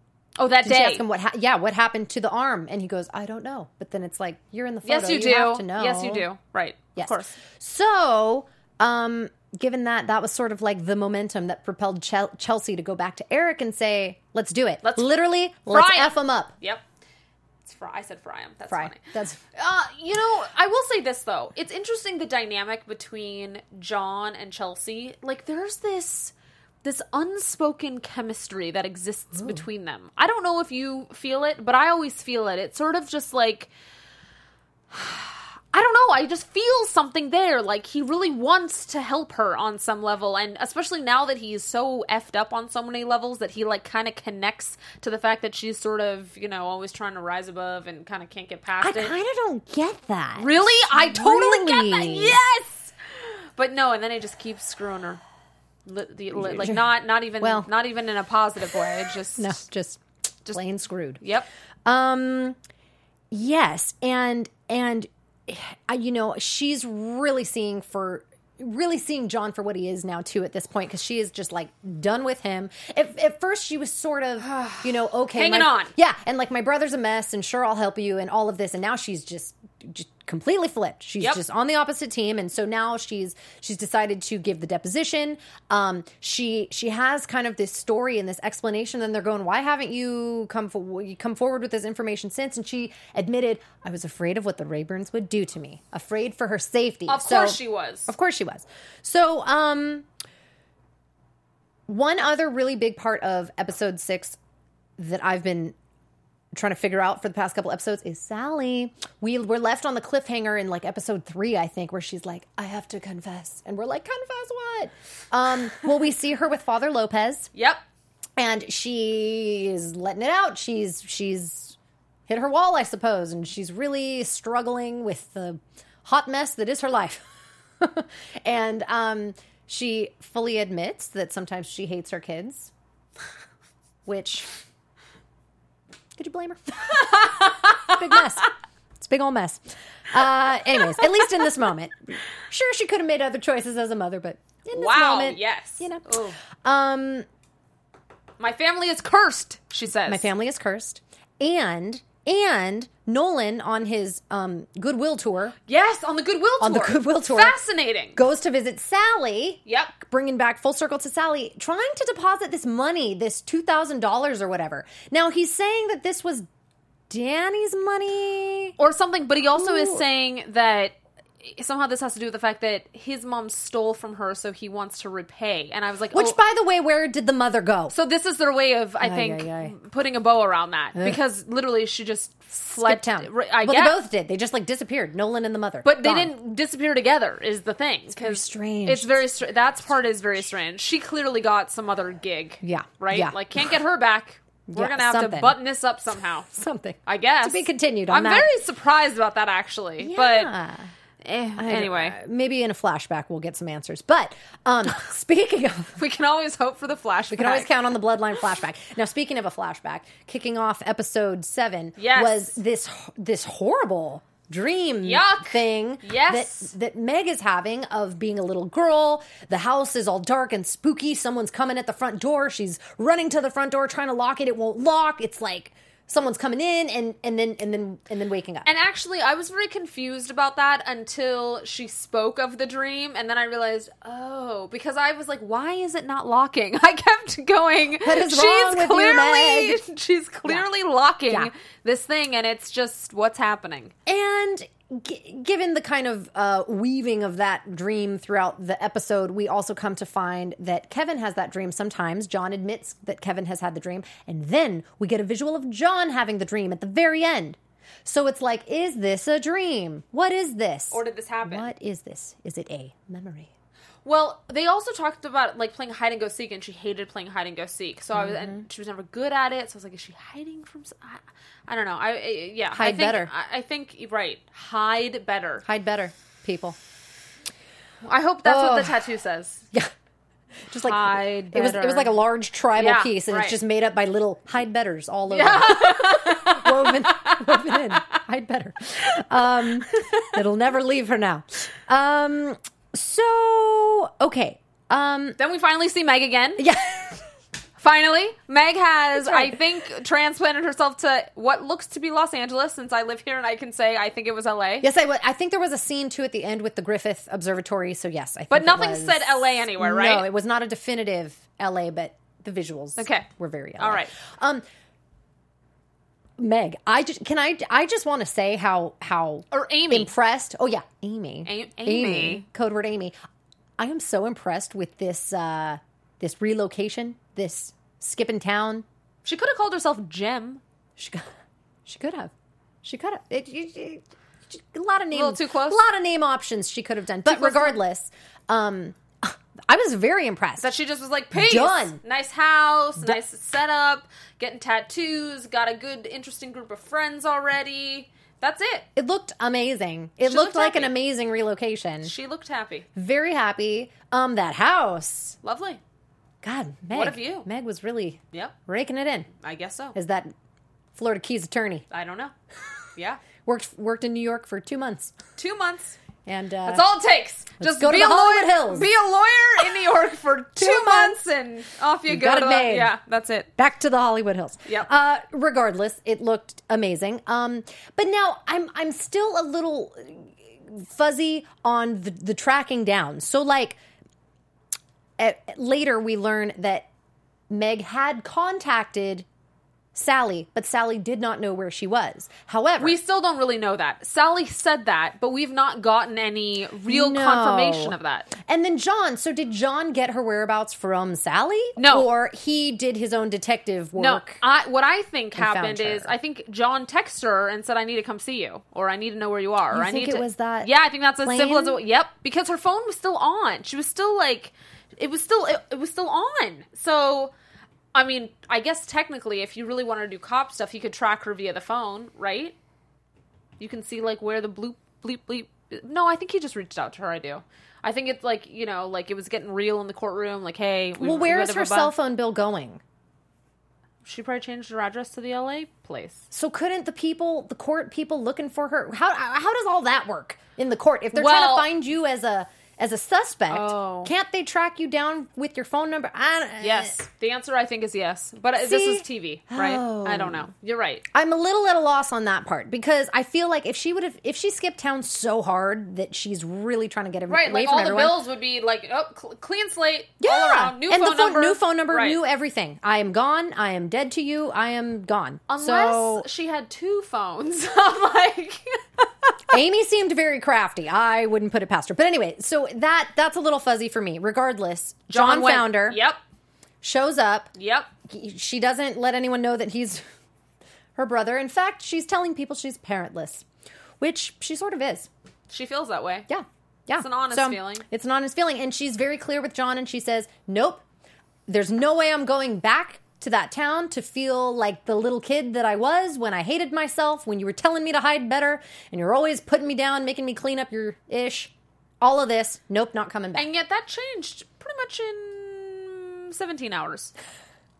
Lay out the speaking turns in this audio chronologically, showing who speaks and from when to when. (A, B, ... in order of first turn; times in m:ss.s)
0:00.4-0:01.0 A
0:00.6-0:06.2 B
0:04.8-0:07.4 A
0:07.0-0:16.5 B
0:15.7-0:16.8 A
0:17.6-0:19.0 A
0:18.7-0:19.4 B
0:19.5-0:26.3 A
0:26.8-0:33.7 A
0:29.3-0:29.6 B
0:34.9-0:49.1 A
0:48.8-0:52.4 B
0:50.4-0:55.2 A
0:55.8-0:59.6 A
0:56.3-0:56.8 B
0:57.4-0:57.7 B
0:59.4-1:01.2 B
1:01.2-1:01.4 A
1:01.8-1:02.6 B
1:03.3-1:40.1 B
1:14.4-1:15.9 A
1:37.1-1:38.1 A
1:41.9-1:44.4 B
1:45.0-1:45.7 B
1:46.5-1:57.5 B
1:57.5-1:57.8 A
1:58.4-2:01.8 B
2:02.3-2:07.2 B
2:07.8-2:12.7 B
2:14.0-2:14.5 B
2:16.2-2:27.2 B
2:16.9-2:18.0 A
2:24.7-2:26.4 A
2:28.4-2:30.3 A
2:30.1-2:35.5 B
2:35.7-2:38.2 A
2:36.6-2:37.6 B
2:38.2-2:46.5 B
2:39.6-2:39.9 A
2:47.1-2:48.8 B
2:48.8-2:56.4 A
2:49.6-2:50.0 B
2:56.1-2:57.9 B
2:57.9-3:04.0 A
2:59.0-2:59.7 B
3:02.7-3:06.3 B
3:05.8-3:16.5 A
3:08.1-3:09.2 B
3:12.6-3:13.7 B
3:14.7-3:15.6 B
3:16.5-3:18.5 B
3:17.0-3:20.5 A
3:20.0-3:20.9 B
3:21.2-3:22.2 A
3:21.6-3:26.0 B
3:26.0-3:27.7 A
3:27.3-3:48.6 B
3:32.0-3:32.6 A
3:35.0-3:36.7 A
3:48.6-4:03.9 A
3:58.0-3:59.8 B
4:04.0-4:23.5 B
4:20.9-4:21.7 A
4:24.0-4:35.6 A
4:28.1-4:28.6 B
4:32.7-4:33.3 B
4:35.6-4:36.8 B
4:38.0-4:39.6 A
4:38.4-4:39.0 B
4:40.7-4:55.4 B
4:40.8-4:42.2 A
4:42.7-4:43.6 A
4:45.3-4:48.0 A
4:49.9-4:50.3 A
4:55.4-4:56.6 A
4:56.6-4:57.2 B
4:57.8-5:04.9 A
4:59.1-4:59.6 B
5:04.8-5:14.6 B
5:08.5-5:10.2 A
5:13.0-5:14.1 A
5:16.4-5:23.1 B
5:19.5-5:20.1 A
5:21.4-5:22.4 A
5:23.8-5:28.8 B
5:29.2-5:30.6 A
5:31.0-5:31.3 B
5:31.8-5:32.3 B
5:32.8-5:40.7 B
5:35.1-5:35.8 A
5:37.2-5:37.8 A
5:40.6-5:48.9 A
5:41.3-5:42.0 B
5:49.0-5:52.1 B
5:50.3-5:50.9 A
5:52.0-5:52.9 A
5:52.9-5:55.4 B
5:55.4-5:55.8 A
5:56.4-5:59.3 B
5:56.9-5:57.5 A
5:59.4-5:59.9 A
5:59.9-6:00.3 B
6:00.9-6:01.8 B
6:01.9-6:02.3 A
6:03.0-6:03.2 A
6:03.4-6:05.2 B
6:05.4-6:06.0 A
6:06.2-6:06.8 B
6:06.6-6:13.5 A
6:07.6-6:08.9 B
6:10.6-6:11.2 B
6:12.1-6:12.9 B
6:13.6-6:23.8 B
6:25.2-6:26.9 B
6:27.5-6:29.2 B
6:29.9-6:33.0 B
6:32.8-6:38.3 A
6:36.9-6:44.4 B
6:41.8-6:42.1 A
6:44.0-6:57.3 A
6:45.4-6:46.1 B
6:49.7-6:50.7 B
6:51.2-6:51.8 B
6:57.9-7:02.5 A
7:03.6-7:11.9 A
7:11.0-7:12.8 B
7:14.0-7:16.3 A
7:16.3-7:27.0 B
7:21.1-7:21.7 A
7:23.5-7:24.1 A
7:26.6-7:31.0 A
7:28.6-7:30.5 B
7:31.1-7:38.2 B
7:37.3-7:42.2 A
7:40.2-7:46.2 B
7:45.5-7:49.4 A
7:49.5-7:56.0 B
7:55.1-7:56.2 A
7:56.8-7:57.5 B
7:57.6-7:57.9 A
7:58.1-8:00.0 B
8:01.0-8:03.4 B
8:04.0-8:05.1 B
8:05.5-8:06.3 A
8:06.3-8:10.8 B
8:07.0-8:07.8 A
8:11.5-8:23.5 B
8:23.3-8:27.1 A